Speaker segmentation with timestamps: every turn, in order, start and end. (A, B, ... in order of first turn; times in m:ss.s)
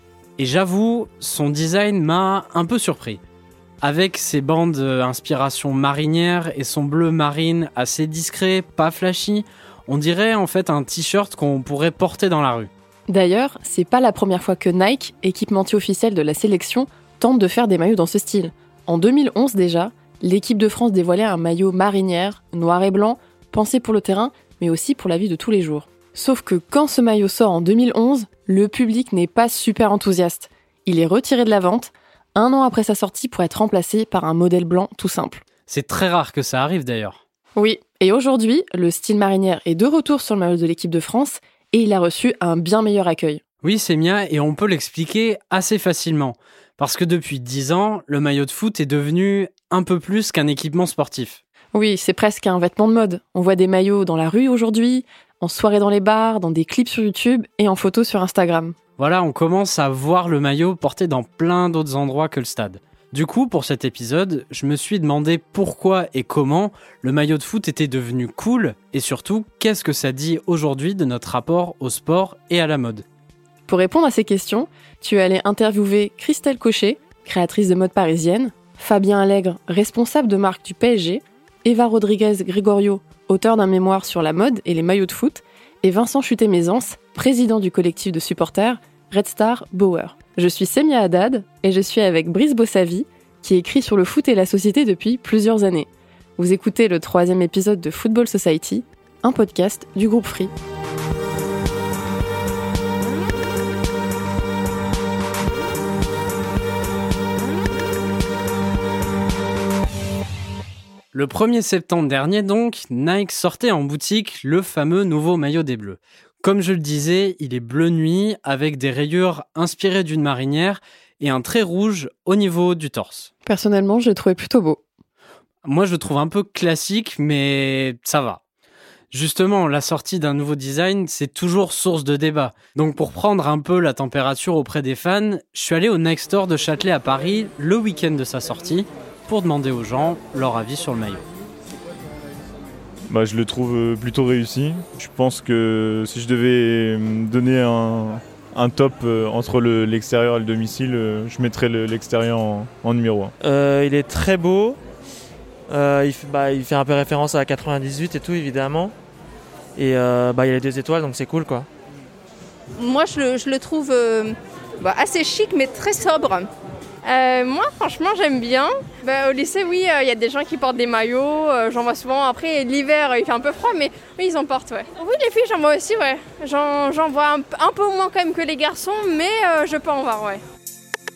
0:00.4-0:03.2 A
0:03.8-0:12.7 A
0:13.1-0:35.4 B
0:35.7-0:37.2 A
0:37.6-0:43.4 B
0:43.6-0:51.4 A
0:51.7-0:58.8 B
0:59.0-1:13.0 A
1:13.7-1:40.5 B
1:51.1-2:03.3 A
2:03.4-2:04.8 B
2:05.6-2:08.4 A
2:09.1-2:21.2 A
2:23.1-2:33.3 C
2:33.4-2:34.8 D
2:35.7-2:38.9 D
2:39.8-2:41.7 D
2:42.8-2:46.5 E
2:47.0-3:00.4 E